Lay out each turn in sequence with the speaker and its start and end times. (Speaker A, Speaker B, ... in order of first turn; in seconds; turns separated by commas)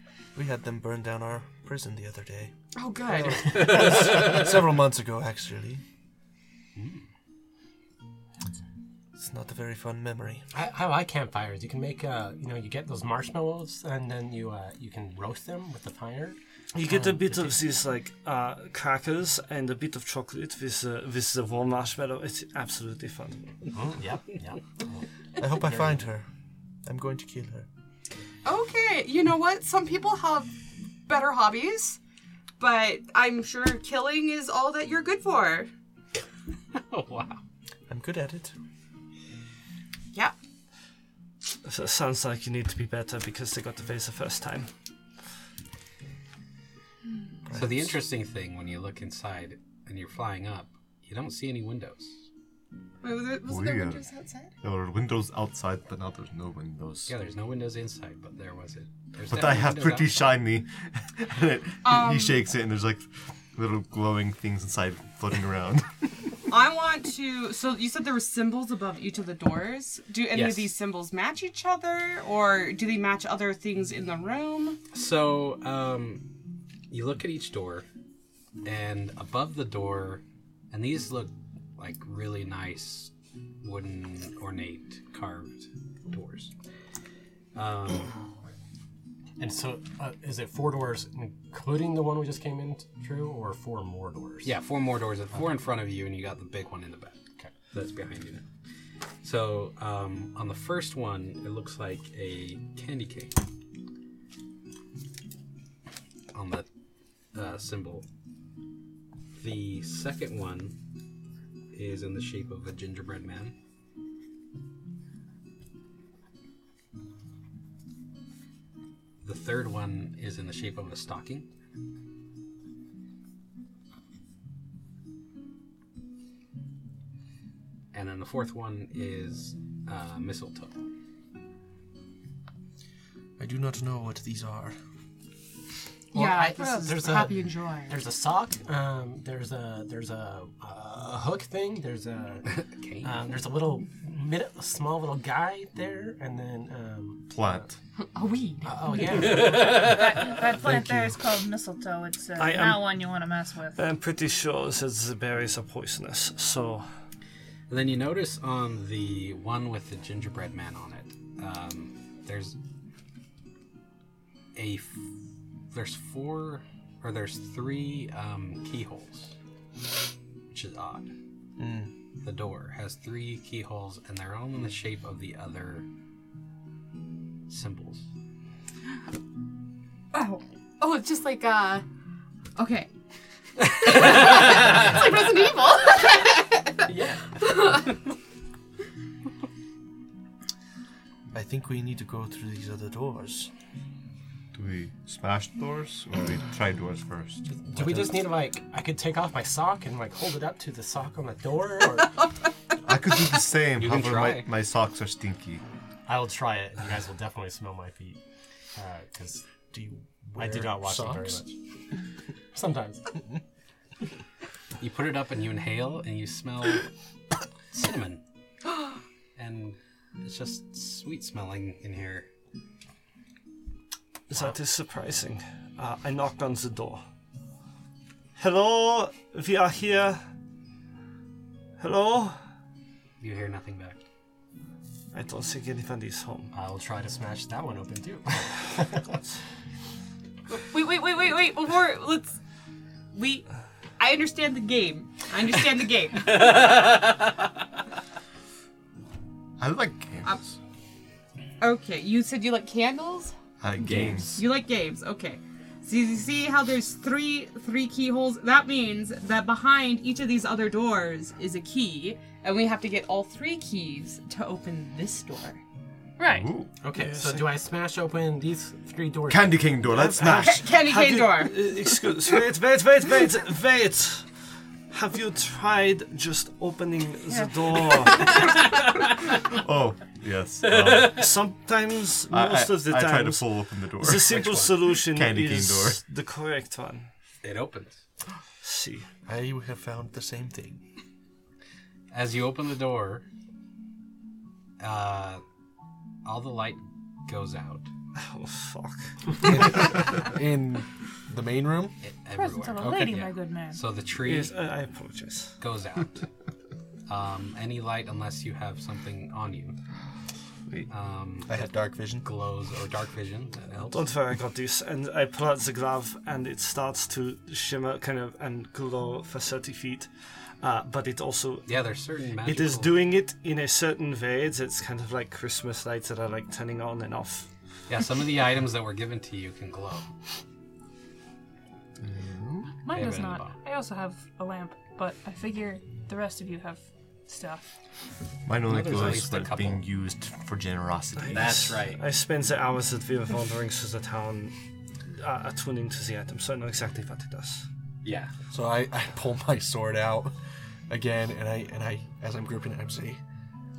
Speaker A: 0.3-2.5, Speaker B: 2.7-3.9, Speaker A: 3.0-5.8, Speaker C: 3.8-4.4, Speaker C: 6.8-7.0, Speaker A: 9.2-10.4, Speaker D: 10.5-16.4, Speaker E: 16.7-23.5, Speaker A: 16.8-17.4, Speaker D: 23.7-26.0, Speaker A: 25.4-26.3, Speaker A: 26.8-27.7, Speaker B: 28.4-32.0, Speaker B: 32.6-35.7, Speaker C: 36.7-37.4, Speaker A: 37.9-38.5, Speaker E: 41.6-44.7, Speaker A: 47.5-48.0, Speaker C: 47.5-52.2, Speaker B: 53.0-54.5, Speaker F: 53.5-54.0, Speaker F: 54.6-57.1, Speaker C: 57.1-60.2, Speaker F: 59.3-66.0, Speaker B: 61.8-62.5, Speaker B: 66.5-74.8, Speaker C: 70.3-70.7, Speaker C: 74.9-76.3, Speaker C: 76.9-77.9, Speaker C: 78.6-86.5, Speaker C: 87.5-88.1, Speaker D: 89.4-94.5, Speaker C: 94.4-97.2, Speaker C: 97.7-98.4, Speaker C: 99.2-103.4, Speaker C: 106.3-106.7, Speaker C: 107.3-108.0, Speaker C: 109.3-110.8, Speaker C: 111.7-113.5, Speaker C: 119.2-121.5, Speaker C: 127.9-130.8, Speaker A: 133.4-134.8, Speaker D: 136.1-147.6, Speaker B: 136.1-138.0, Speaker G: 136.6-136.8, Speaker C: 142.5-143.1, Speaker F: 147.3-147.8, Speaker B: 148.0-149.4, Speaker D: 148.6-150.0, Speaker G: 149.1-153.8, Speaker C: 149.6-150.0, Speaker E: 150.7-151.2, Speaker E: 152.4-153.1, Speaker E: 153.8-156.8, Speaker C: 157.7-162.6, Speaker C: 164.5-165.0, Speaker C: 165.7-169.3, Speaker C: 170.5-171.1, Speaker A: 171.6-171.9, Speaker C: 172.2-175.8, Speaker C: 177.5-178.0, Speaker B: 180.1-181.8, Speaker B: 182.6-182.9, Speaker B: 183.6-187.8, Speaker D: 186.9-187.3, Speaker A: 191.3-193.5, Speaker F: 194.5-198.2, Speaker D: 197.6-202.2, Speaker F: 202.8-205.6, Speaker C: 203.8-204.5, Speaker D: 206.1-208.2, Speaker D: 208.7-209.4, Speaker A: 209.7-211.4, Speaker D: 210.3-211.6, Speaker D: 212.5-213.2, Speaker C: 214.8-216.9, Speaker C: 217.7-218.2, Speaker C: 219.3-222.3, Speaker E: 224.3-227.0, Speaker E: 228.3-230.2, Speaker E: 231.8-232.4, Speaker C: 233.2-234.0, Speaker E: 235.1-236.5, Speaker D: 236.5-239.2, Speaker B: 240.6-242.3, Speaker B: 243.1-243.4, Speaker B: 244.0-246.5, Speaker C: 246.3-247.4, Speaker F: 249.6-250.5, Speaker B: 251.6-253.3, Speaker F: 253.6-254.4, Speaker C: 253.8-254.3, Speaker B: 254.0-265.6, Speaker G: 266.2-266.5, Speaker F: 266.3-266.7, Speaker D: 266.8-269.7, Speaker E: 266.9-267.5, Speaker F: 269.3-270.6, Speaker E: 269.9-274.3, Speaker B: 270.1-271.7, Speaker E: 274.9-278.4, Speaker B: 277.3-278.5, Speaker F: 279.5-281.2, Speaker C: 280.6-281.2, Speaker E: 281.1-287.1, Speaker F: 282.3-286.0, Speaker C: 284.3-284.8, Speaker C: 287.4-288.0, Speaker E: 288.6-289.1, Speaker A: 289.2-290.8, Speaker C: 292.1-293.2, Speaker C: 294.8-295.4, Speaker C: 296.2-297.9, Speaker E: 298.2-299.7, Speaker A: 299.5-301.9, Speaker C: 302.0-304.5, Speaker G: 302.3-303.8, Speaker A: 302.8-303.1, Speaker E: 304.2-305.6, Speaker C: 305.6-306.3, Speaker C: 307.1-309.8, Speaker C: 310.9-311.6, Speaker A: 311.5-312.2, Speaker C: 312.2-314.1, Speaker E: 313.8-321.7, Speaker C: 321.6-323.0, Speaker E: 322.4-327.5, Speaker C: 327.9-330.1, Speaker F: 332.0-332.7, Speaker G: 332.8-337.8, Speaker C: 332.9-333.6, Speaker F: 338.4-341.7, Speaker C: 338.6-339.8, Speaker E: 341.1-344.5, Speaker C: 341.3-342.0, Speaker E: 345.1-347.6, Speaker C: 348.0-348.3, Speaker A: 348.5-350.3, Speaker A: 350.9-353.2